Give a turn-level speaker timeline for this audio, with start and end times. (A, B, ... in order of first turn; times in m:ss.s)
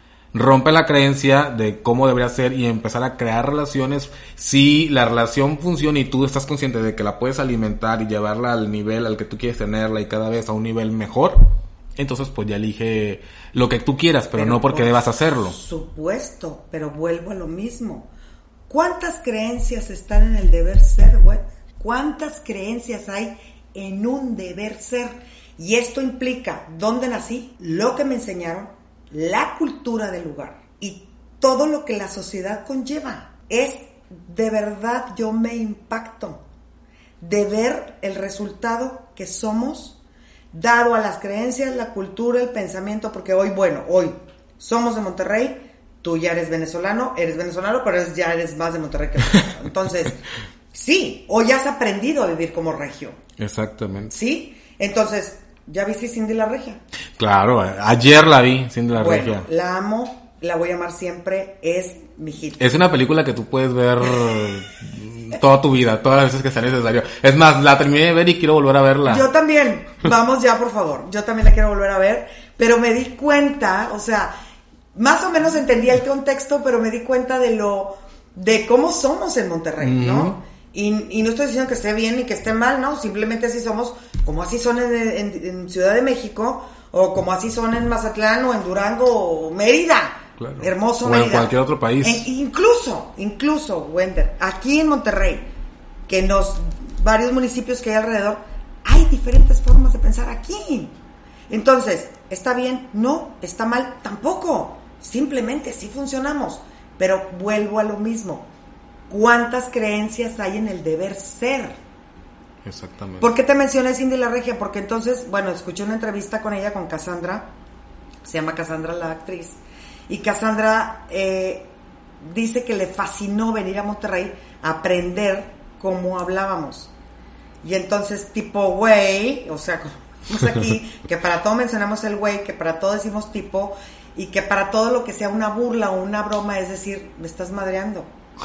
0:00.3-0:15.6 A
0:14.4-0:18.1 B
0:18.7-0:36.4 B
0:37.2-0:40.0 B
0:40.5-0:50.2 B
0:50.7-0:53.2 B
0:53.4-0:54.1 A
0:54.1-0:56.8 B
0:57.2-0:59.5 A
0:58.9-1:02.6 B
1:02.6-1:09.2 A
1:09.0-1:14.3 B
1:14.9-1:35.5 B
1:19.8-1:20.4 A
1:30.4-1:32.3 A
1:36.1-1:40.9 B
1:41.5-1:48.5 B
1:49.1-1:51.8 B
1:52.6-1:53.3 A
1:53.2-1:57.5 B
1:58.2-2:06.9 B
2:07.6-2:18.1 B